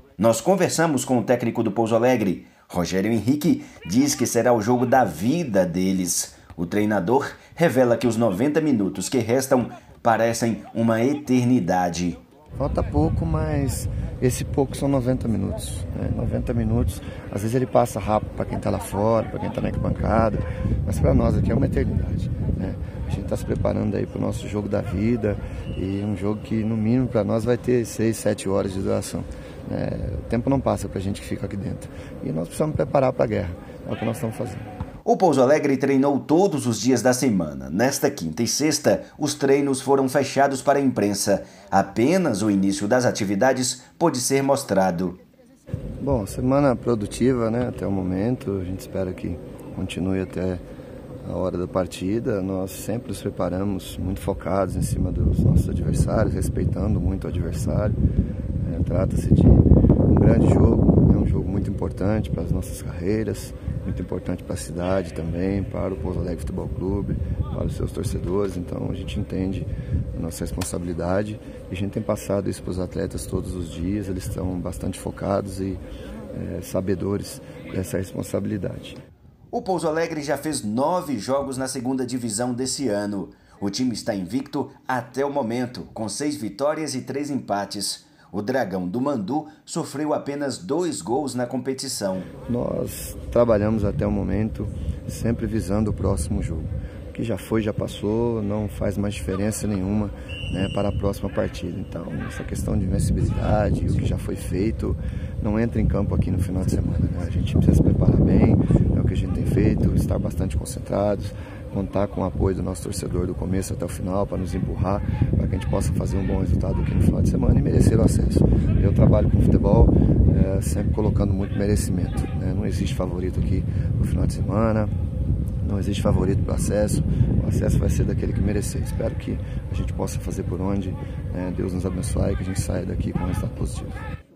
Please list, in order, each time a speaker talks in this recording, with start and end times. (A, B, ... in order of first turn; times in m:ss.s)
0:00.2-0:12.2 A
0:12.6-0:34.7 B
0:35.0-0:45.2 A
0:46.0-0:50.6 B
0:51.2-0:58.0 B
0:58.6-1:19.0 B
1:19.5-1:32.3 A
1:32.5-2:04.9 B
2:05.6-2:14.0 B